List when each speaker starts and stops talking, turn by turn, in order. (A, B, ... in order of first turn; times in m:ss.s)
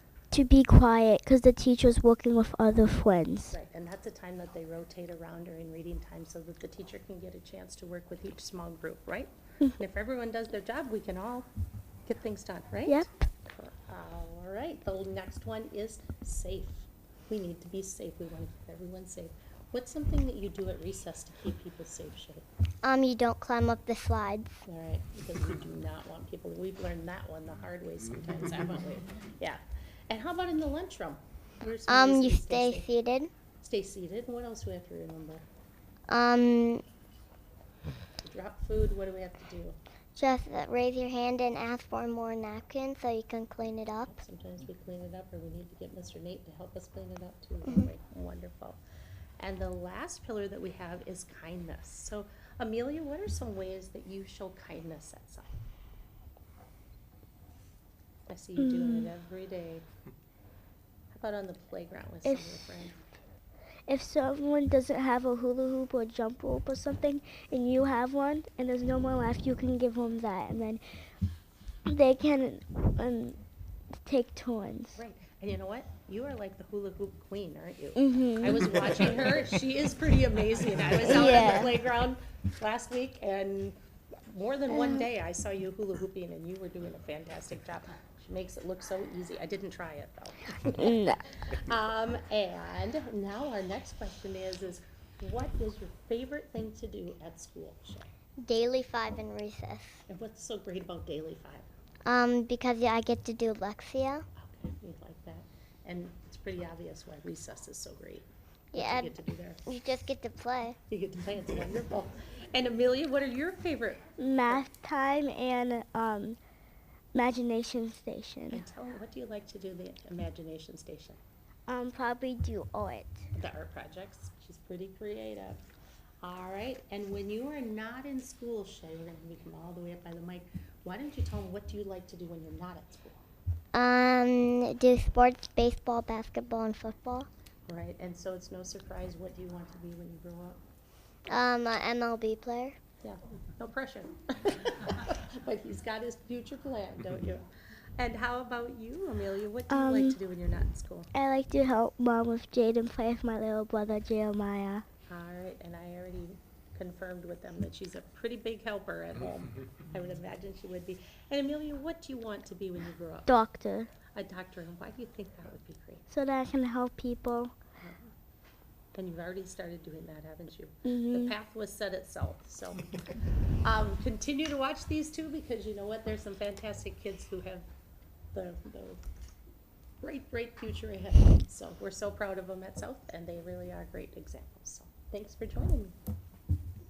0:00.3-0:03.5 A
0:03.5-0:11.5 B
0:12.1-0:22.4 B
0:22.8-0:24.6 C
0:24.7-0:32.9 B
0:31.9-0:33.3 C
0:33.6-0:35.4 B
0:36.1-0:36.8 C
0:38.2-0:39.8 B
0:40.2-0:44.1 C
0:44.0-0:48.8 B
0:49.4-0:55.5 B
0:58.3-0:59.8 B
0:58.6-0:59.1 A
1:01.1-1:03.0 B
1:02.2-1:02.8 A
1:03.9-1:10.8 A
1:11.9-1:13.4 A
1:14.0-1:15.0 A
1:15.0-1:38.1 B
1:18.0-1:18.8 A
1:21.0-1:21.7 A
1:24.7-1:25.0 A
1:30.8-1:31.2 A
1:38.4-1:40.0 C
1:40.1-1:41.7 B
1:42.0-1:44.3 C
1:44.4-1:49.6 B
1:48.7-1:49.1 C
1:49.7-1:50.8 C
1:50.9-1:54.7 B
1:54.2-1:56.4 A
1:57.2-1:58.6 A
1:58.5-2:01.2 B
2:01.7-2:03.2 A
2:03.4-2:05.6 B
2:06.2-2:13.2 B
2:13.7-2:17.3 C
2:17.7-2:20.6 B
2:21.3-2:22.8 C
2:23.0-2:31.1 B
2:29.7-2:30.2 A
2:31.1-2:34.8 A
2:35.1-2:43.3 B
2:43.3-2:43.9 A
2:44.1-2:46.0 B
2:46.1-2:47.5 A
2:47.8-2:48.1 B
2:48.9-2:52.9 B
2:50.8-2:51.3 A
2:53.6-2:57.7 B
2:58.3-2:59.0 B
3:00.0-3:06.0 B